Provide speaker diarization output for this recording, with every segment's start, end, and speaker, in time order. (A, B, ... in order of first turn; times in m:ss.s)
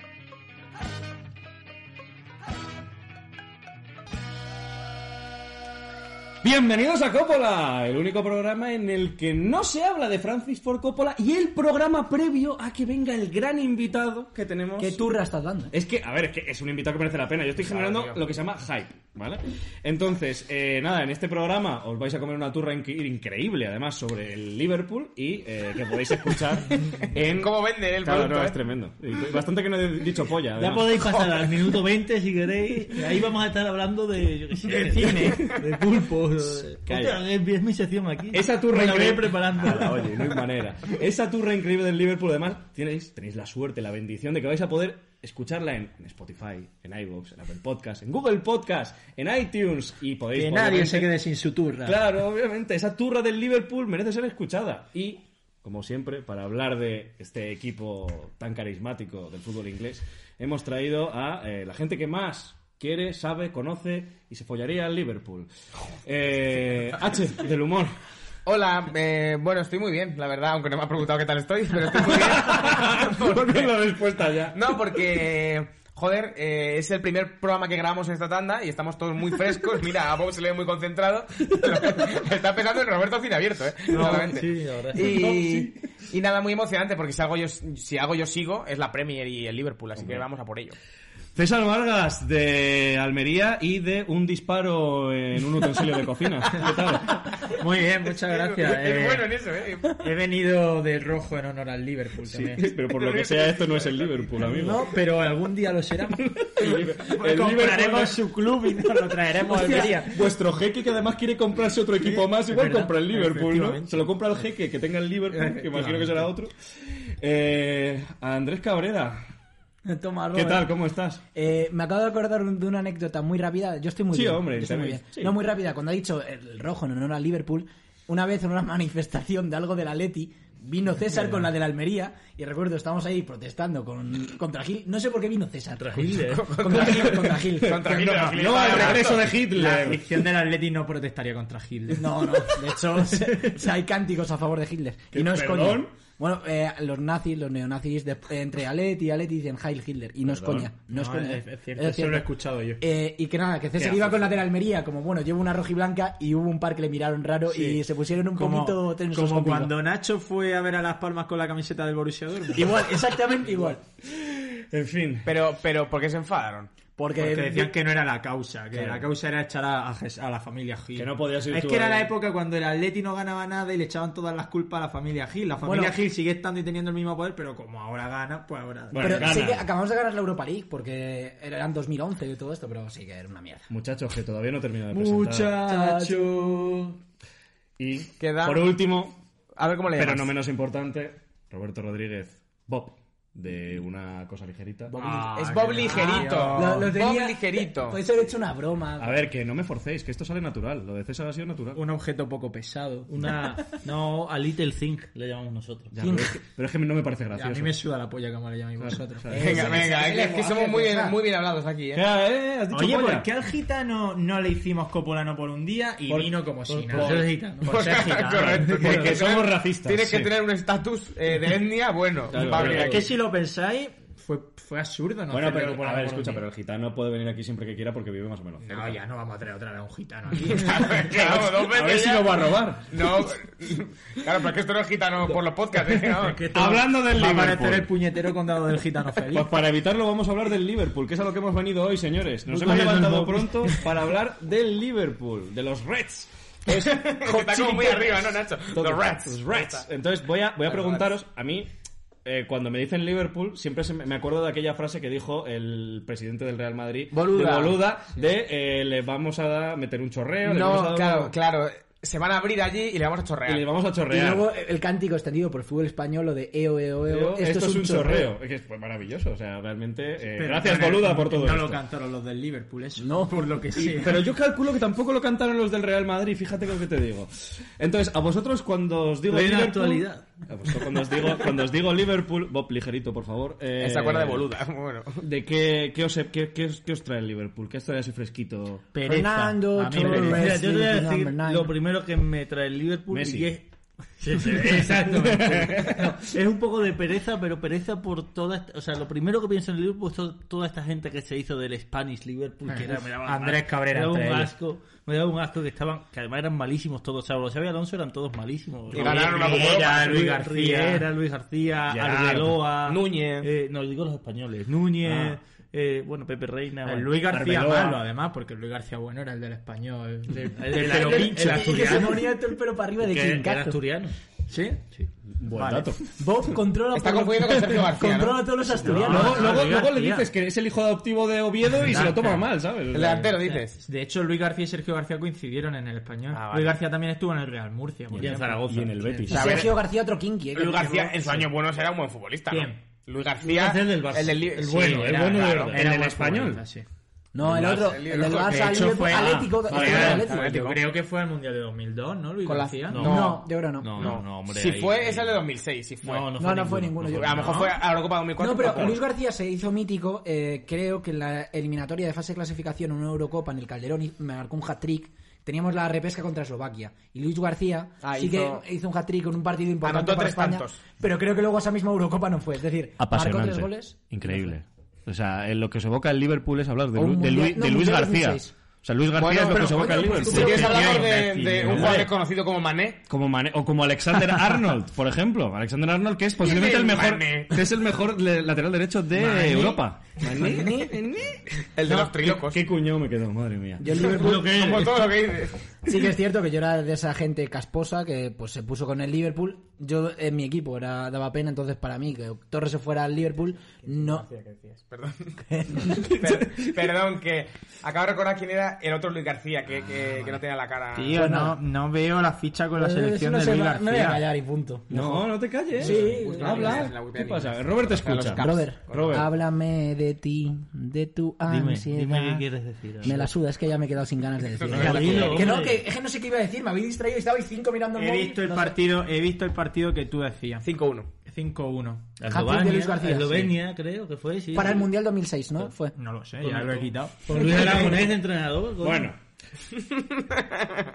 0:06.4-0:15.0 A
0:14.8-0:15.7 B
0:15.7-0:31.4 A
0:17.6-0:18.2 C
0:27.2-0:28.6 C
0:30.6-0:40.2 D
0:34.8-0:35.4 B
0:34.8-0:35.4 E
0:36.8-0:37.2 A
0:38.3-0:51.2 A
0:50.3-0:52.0 E
0:51.8-1:05.5 A
1:06.0-1:07.9 A
1:08.4-1:13.7 C
1:12.0-1:14.8 A
1:14.5-1:30.8 C
1:23.9-1:25.3 D
1:30.0-1:30.2 A
1:31.4-1:37.4 A
1:37.4-1:39.3 E
1:38.2-1:40.0 C
1:40.0-1:42.6 E
1:42.3-1:44.9 A
1:42.7-1:44.3 C
1:44.4-1:50.2 E
1:46.4-1:48.2 A
1:49.6-1:59.2 A
1:52.0-1:54.1 E
1:55.3-1:56.3 E
1:59.8-2:00.7 B
2:00.3-2:01.2 A
2:01.3-2:19.0 B
2:04.1-2:05.4 A
2:15.8-2:16.8 D
2:16.3-2:19.3 C
2:18.3-2:20.0 A
2:19.2-2:22.8 E
2:22.0-2:32.3 B
2:25.1-2:25.9 A
2:30.2-2:30.7 A
2:30.9-2:32.8 E
2:32.8-2:39.7 B
2:33.8-2:34.5 A
2:37.5-2:37.8 E
2:38.3-2:43.0 E
2:42.5-2:43.8 B
2:44.0-2:45.3 A
2:45.2-2:46.8 C
2:47.0-2:47.7 B
2:47.2-2:59.3 E
2:48.7-2:49.1 A
2:51.0-2:52.1 A
2:55.6-2:56.0 B
2:58.9-2:59.7 A
2:59.0-3:03.7 B
3:03.7-3:05.6 A
3:04.9-3:07.0 E
3:05.6-3:06.4 B
3:07.8-3:09.2 A
3:08.2-3:08.7 C
3:09.6-3:10.3 C
3:09.9-3:15.0 A
3:14.9-3:17.0 E
3:14.9-3:15.2 B
3:15.2-3:18.0 C
3:15.8-3:19.2 B
3:19.0-3:21.8 A
3:21.8-3:23.6 E
3:23.1-3:25.9 D
3:25.9-3:27.7 A
3:26.0-3:26.4 B
3:27.3-3:29.6 E
3:28.8-3:29.8 A
3:29.3-3:31.2 B
3:29.3-3:32.0 C
3:31.9-3:33.3 A
3:32.7-3:37.2 E
3:36.1-3:37.3 A
3:36.7-3:39.1 D
3:37.6-3:43.1 C
3:38.0-3:38.3 E
3:38.3-3:40.3 A
3:42.3-3:43.1 A
3:42.6-3:46.4 E
3:45.3-3:49.0 A
3:48.6-3:51.1 E
3:50.5-3:56.5 C
3:51.1-3:53.0 A
3:56.1-3:56.4 D
3:56.4-3:59.5 E
3:56.5-3:57.9 A
3:59.2-4:07.1 A
4:02.5-4:03.7 D
4:06.7-4:09.8 C
4:07.3-4:08.2 B
4:08.7-4:11.7 A
4:10.7-4:11.0 C
4:12.2-4:21.3 A
4:17.1-4:17.8 C
4:20.4-4:23.7 C
4:23.4-4:24.5 A
4:24.1-4:28.3 B
4:27.1-4:31.8 A
4:30.4-4:34.3 E
4:33.0-4:33.6 B
4:33.8-4:44.5 A
4:39.3-4:40.4 D
4:43.8-4:45.2 C
4:45.2-4:48.8 A
4:48.9-4:50.6 E
4:49.1-4:51.7 B
4:49.8-4:53.7 D
4:53.1-4:53.5 A
4:54.2-5:17.2 D
4:54.4-4:55.6 E
4:54.6-4:56.1 A
5:02.7-5:04.5 E
5:08.9-5:10.2 C
5:08.9-5:11.1 E
5:11.9-5:12.6 A
5:12.8-5:13.5 C
5:15.0-5:15.4 E
5:16.8-5:22.3 E
5:17.3-5:18.0 A
5:20.6-5:22.4 D
5:20.8-5:23.8 B
5:23.0-5:24.2 D
5:24.5-5:24.8 E
5:25.4-5:26.0 A
5:25.5-5:26.0 E
5:26.2-5:29.4 B
5:26.9-5:28.6 C
5:28.8-5:29.4 D
5:28.8-5:30.3 E
5:29.0-5:33.4 A
5:31.8-5:32.4 E
5:32.9-5:33.8 C
5:33.7-5:38.8 E
5:36.3-5:36.8 C
5:38.2-5:39.3 D
5:38.7-5:39.7 A
5:39.3-5:41.2 B
5:39.3-5:39.8 C
5:40.5-5:45.7 C
5:42.5-5:42.8 E
5:43.4-5:46.0 D
5:45.1-5:46.6 A
5:45.7-5:46.8 E
5:47.3-5:50.7 B
5:47.4-5:49.1 C
5:47.5-5:47.8 A
5:48.3-5:53.0 E
5:49.3-5:50.2 A
5:49.8-5:50.9 C
5:52.4-5:56.4 C
5:52.9-5:55.4 D
5:53.0-5:54.2 B
5:56.0-5:57.8 D
5:56.3-5:57.6 B
5:57.2-5:59.0 C
5:58.4-6:14.6 B
5:58.6-5:59.0 A
6:08.0-6:08.6 C
6:09.8-6:10.8 C
6:13.0-6:22.2 A
6:17.0-6:18.5 B
6:19.1-6:23.0 C
6:19.5-6:21.1 B
6:20.2-6:22.0 D
6:23.1-6:34.0 A
6:26.4-6:27.6 C
6:29.2-6:31.0 B
6:31.6-6:32.6 C
6:33.8-6:34.6 B
6:34.0-6:35.2 D
6:34.2-6:35.6 C
6:35.8-6:44.3 B
6:44.0-6:45.4 C
6:45.4-6:46.2 B
6:45.9-6:51.2 C
6:51.0-6:54.2 E
6:51.2-6:51.6 B
6:52.8-6:55.2 B
6:54.9-6:59.3 A
6:55.8-6:56.9 B
6:55.8-6:59.3 C
6:58.4-7:02.5 B
7:01.5-7:03.3 D
7:03.0-7:08.8 B
7:04.6-7:05.6 C
7:04.7-7:05.8 D
7:04.9-7:05.4 A
7:08.0-7:10.7 E
7:10.6-7:11.1 C
7:11.2-7:12.1 E
7:12.2-7:14.9 D
7:12.3-7:13.6 B
7:14.5-7:16.0 B
7:15.9-7:17.6 E
7:16.4-7:19.1 D
7:18.8-7:19.2 A
7:20.1-7:20.8 C